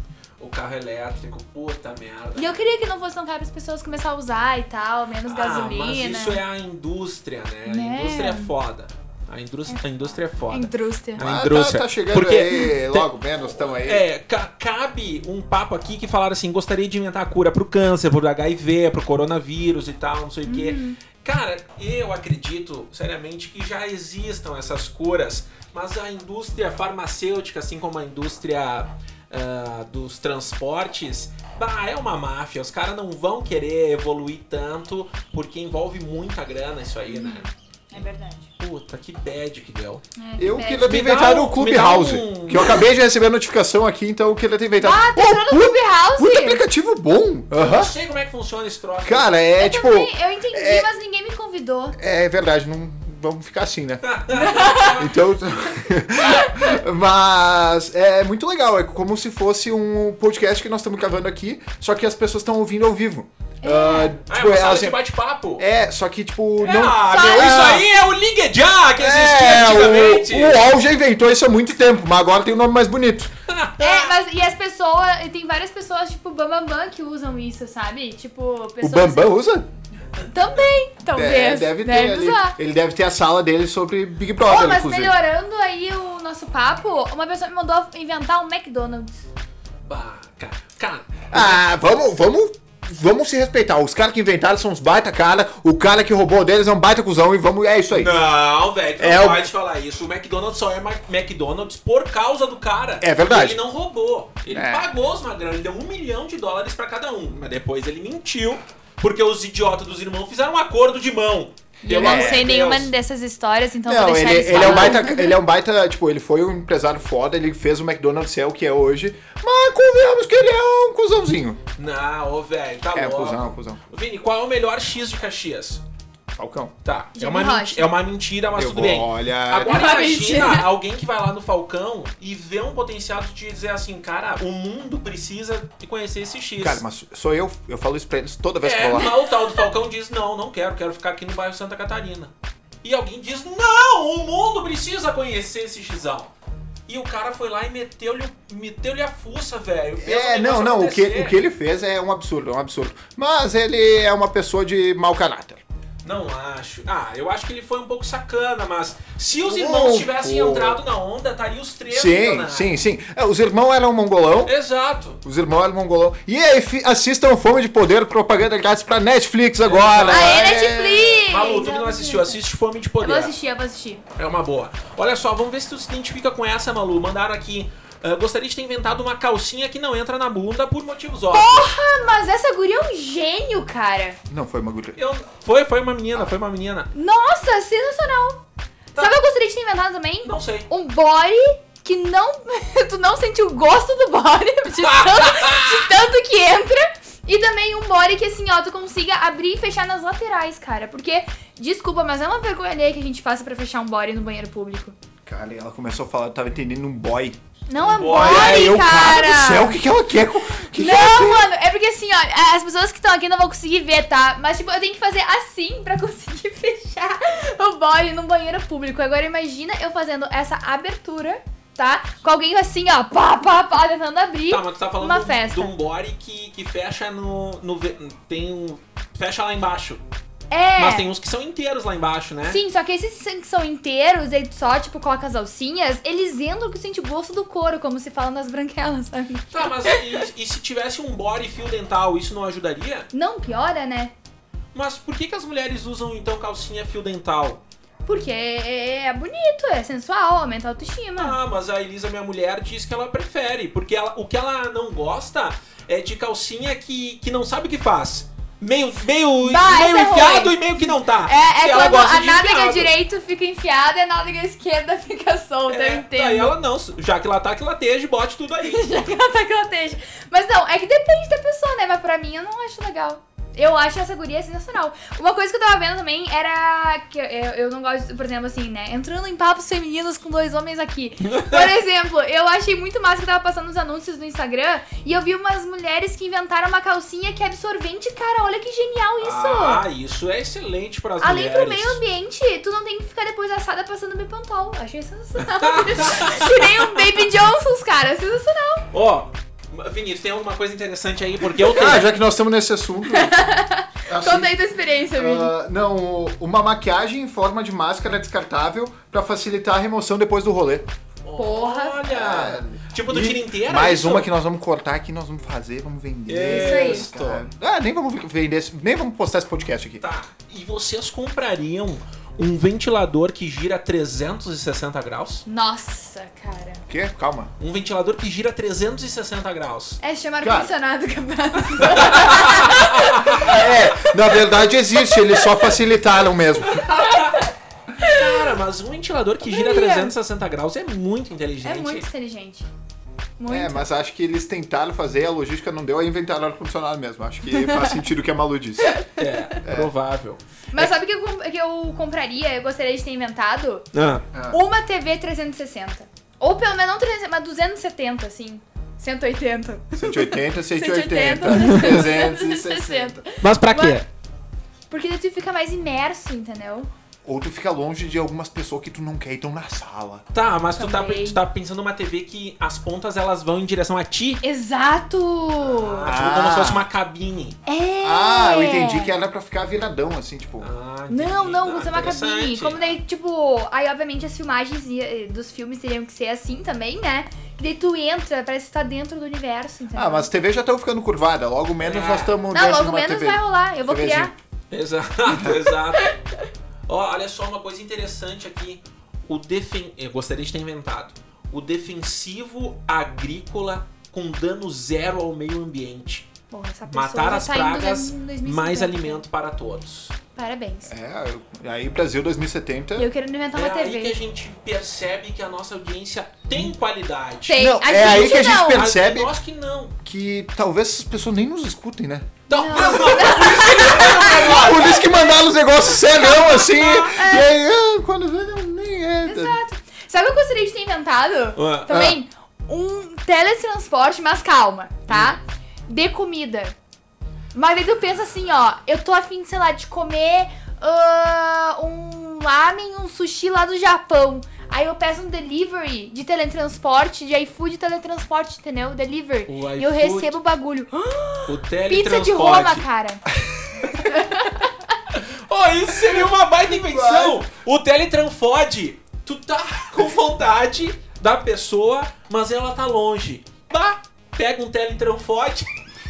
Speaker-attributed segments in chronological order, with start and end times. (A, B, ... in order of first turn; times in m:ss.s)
0:00.4-0:02.6 A
0:02.3-0:06.4 B
0:05.2-0:38.0 A
0:07.6-0:08.5 B
0:10.5-0:11.3 B
0:11.2-0:14.1 C
0:20.4-0:21.0 B
0:37.1-0:38.5 B
0:38.6-0:40.0 A
0:40.2-0:40.9 B
0:40.4-0:47.9 C
0:40.8-0:42.7 A
0:44.8-0:46.6 B
0:47.5-0:49.4 A
0:49.0-0:50.9 C
0:49.6-0:52.0 B
0:51.9-0:54.1 C
0:54.0-0:55.2 A
0:54.3-0:55.0 B
0:55.0-1:05.0 C
0:56.3-0:56.8 B
1:03.6-1:04.2 B
1:04.2-1:05.6 A
1:05.6-1:07.9 C
1:06.6-1:10.7 A
1:06.6-1:07.5 B
1:09.0-1:13.3 C
1:13.5-1:14.1 A
1:13.8-1:19.3 B
1:18.8-1:19.6 C
1:20.3-1:22.6 B
1:21.1-1:25.2 C
1:24.4-1:29.1 B
1:29.8-1:31.6 A
1:31.3-1:38.1 C
1:37.9-1:52.9 A
1:39.0-1:39.4 C
1:43.0-1:43.6 C
1:44.5-1:44.9 C
1:51.8-1:55.4 B
1:51.9-1:52.5 C
1:53.8-2:01.6 C
1:54.4-1:55.1 A
2:01.8-2:05.8 A
2:02.9-2:03.8 C
2:06.4-2:06.7 C
2:06.8-2:16.8 A
2:07.1-2:07.9 B
2:08.5-2:09.8 C
2:09.6-2:10.7 B
2:16.6-2:19.2 C
2:18.6-2:22.3 A
2:22.8-2:26.3 A
2:26.9-2:31.4 A
2:30.0-2:35.6 C
2:36.0-2:42.8 A
2:39.4-2:40.8 C
2:41.9-2:44.5 C
2:44.4-2:45.2 A
2:45.2-2:51.2 C
2:49.6-2:50.4 A
2:50.1-2:52.4 B
2:51.2-2:53.3 A
2:53.0-2:54.0 B
2:54.1-3:01.7 A
3:01.3-3:04.2 B
3:04.3-3:05.0 C
3:04.9-3:06.9 A
3:06.9-3:08.4 B
3:08.9-3:24.9 B
3:08.9-3:09.2 A
3:10.2-3:10.7 A
3:14.8-3:15.8 A
3:25.2-3:31.5 C
3:27.7-3:29.8 B
3:27.8-3:28.6 A
3:30.7-3:45.7 B
3:44.5-3:50.0 A
3:50.5-3:51.1 B
3:50.8-3:52.6 A
3:52.4-4:00.3 B
3:59.5-4:03.1 A
4:03.1-4:04.1 B
4:04.7-4:07.6 A
4:08.0-4:11.4 B
4:11.2-4:22.9 A
4:19.4-4:26.5 B
4:25.7-4:28.8 A
4:28.6-4:49.8 B
4:41.2-4:41.7 A
4:49.2-4:52.0 A
4:51.2-4:58.9 B
4:55.4-4:56.7 A
4:58.9-5:02.1 A
5:01.6-5:03.4 C
5:03.1-5:05.5 B
5:04.1-5:04.6 C
5:05.1-5:10.9 C
5:11.2-5:14.3 A
5:11.4-5:12.1 B
5:12.1-5:20.0 C
5:16.3-5:17.5 A
5:16.4-5:17.1 B
5:20.0-5:25.4 A
5:25.4-5:26.8 B
5:26.9-5:27.5 C
5:27.6-5:30.0 A
5:30.0-5:33.6 B
5:30.4-5:30.7 C
5:31.8-5:33.7 A
5:33.4-5:36.8 C
5:35.0-5:35.4 B
5:36.7-5:37.4 A
5:36.8-5:38.6 B
5:38.0-5:42.0 A
5:39.4-5:40.1 B
5:41.6-5:42.7 B
5:43.4-5:43.9 B
5:43.5-5:49.0 C
5:47.5-5:48.0 B
5:48.8-5:49.6 B
5:49.2-5:50.4 A
5:49.6-5:49.9 C
5:50.7-5:53.9 B
5:53.9-5:54.3 A
5:54.3-5:54.6 C
5:54.4-6:04.0 B
5:59.9-6:03.2 C
6:01.5-6:02.0 A
6:03.3-6:04.0 A
6:04.9-6:06.9 B
6:07.2-6:10.2 C
6:10.3-6:14.4 A
6:10.7-6:11.4 B
6:14.4-6:16.1 B
6:15.6-6:17.6 A
6:16.1-6:16.9 C
6:17.6-6:19.2 B
6:18.0-6:20.7 C
6:20.6-6:23.0 A
6:21.1-6:30.3 B
6:29.9-6:34.3 C
6:31.8-6:32.4 A
6:32.5-6:34.3 B
6:34.7-6:36.1 A
6:35.9-6:36.2 B
6:36.9-6:46.3 A
6:46.5-6:49.3 B
6:46.9-6:50.2 A
6:50.3-6:50.9 B
6:50.9-6:53.1 C
6:52.9-6:54.2 B
6:53.5-7:00.0 A
6:57.5-6:58.9 B
6:57.6-6:59.3 C
7:00.0-7:03.1 C
7:02.5-7:05.2 A
7:02.5-7:04.5 B
7:04.1-7:09.6 C
7:06.0-7:07.5 B
7:06.6-7:07.1 A
7:09.2-7:15.1 B
7:11.5-7:12.0 A
7:11.9-7:12.2 C
7:15.1-7:15.4 A
7:15.1-7:15.4 C
7:15.9-7:16.7 B
7:17.5-7:33.2 B
7:29.5-7:30.4 A
7:31.5-7:32.8 A
7:33.8-7:45.7 A
7:34.0-7:34.7 B
7:36.7-7:37.4 C